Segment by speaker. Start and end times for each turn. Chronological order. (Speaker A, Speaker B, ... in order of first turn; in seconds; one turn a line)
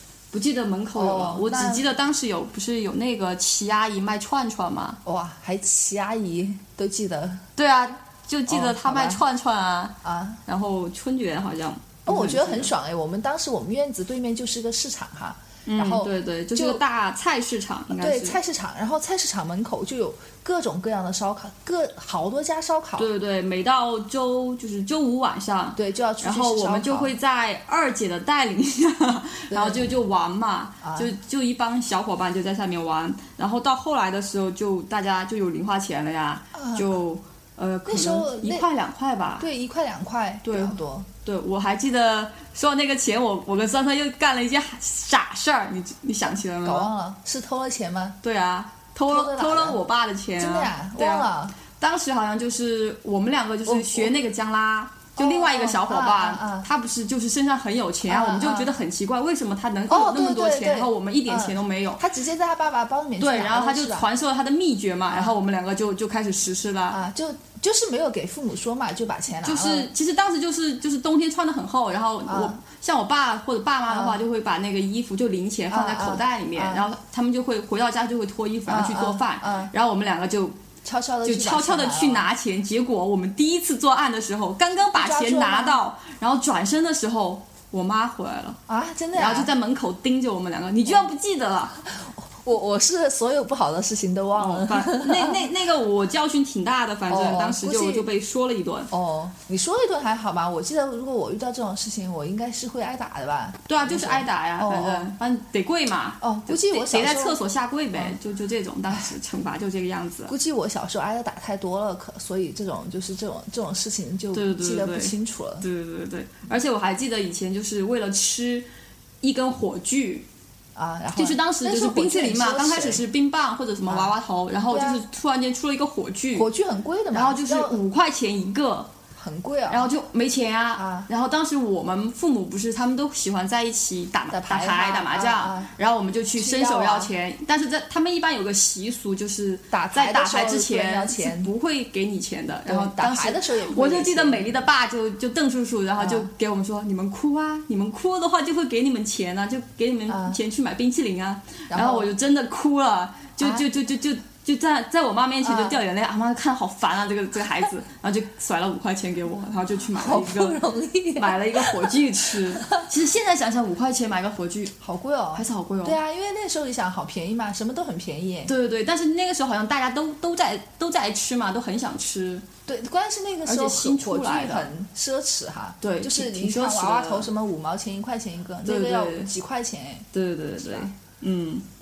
Speaker A: 0.3-5.0
Speaker B: 0.9-1.9
Speaker B: 5.0-7.4
Speaker A: 7.6-12.7
Speaker B: 8.5-9.2
Speaker B: 10.0-10.4
Speaker B: 12.1-16.8
Speaker A: 15.7-18.4
Speaker B: 17.9-23.1
Speaker A: 23.0-39.5
Speaker B: 25.8-27.1
Speaker B: 29.5-29.9
Speaker B: 30.8-31.1
Speaker B: 36.5-36.9
Speaker B: 37.9-38.7
Speaker B: 39.4-41.1
Speaker A: 40.4-46.9
Speaker B: 46.6-48.2
Speaker A: 48.2-62.0
Speaker B: 49.1-49.8
Speaker B: 50.4-51.5
Speaker B: 53.7-54.1
Speaker B: 55.2-56.7
Speaker B: 58.1-58.7
Speaker B: 59.9-64.1
Speaker A: 63.2-67.0
Speaker B: 66.9-69.9
Speaker A: 69.4-80.6
Speaker B: 72.3-72.6
Speaker B: 73.9-74.2
Speaker B: 75.7-76.9
Speaker B: 78.7-79.7
Speaker B: 80.8-82.3
Speaker A: 81.2-88.6
Speaker B: 84.9-85.8
Speaker B: 88.7-89.5
Speaker A: 89.1-91.8
Speaker B: 91.9-95.5
Speaker A: 94.4-98.9
Speaker B: 97.1-98.1
Speaker B: 98.9-105.1
Speaker A: 103.7-110.3
Speaker B: 106.2-107.4
Speaker B: 110.3-115.7
Speaker A: 114.3-118.7
Speaker A: 119.2-120.3
Speaker B: 120.8-123.0
Speaker A: 121.2-126.5
Speaker B: 123.9-124.1
Speaker B: 124.7-125.0
Speaker B: 126.3-127.8
Speaker A: 127.1-128.9
Speaker B: 129.2-129.9
Speaker A: 129.7-160.6
Speaker B: 130.8-131.1
Speaker B: 134.3-135.7
Speaker B: 136.4-137.1
Speaker B: 139.7-141.5
Speaker B: 142.7-144.6
Speaker B: 146.0-146.3
Speaker B: 150.1-150.4
Speaker B: 151.7-152.1
Speaker B: 153.4-153.7
Speaker B: 155.4-155.8
Speaker B: 159.9-162.8
Speaker A: 161.2-164.7
Speaker B: 164.8-168.5
Speaker A: 165.3-166.0
Speaker A: 168.5-172.4
Speaker B: 172.7-180.1
Speaker A: 173.5-174.7
Speaker A: 175.8-177.3
Speaker A: 178.6-179.3
Speaker A: 180.1-181.7
Speaker B: 180.6-180.9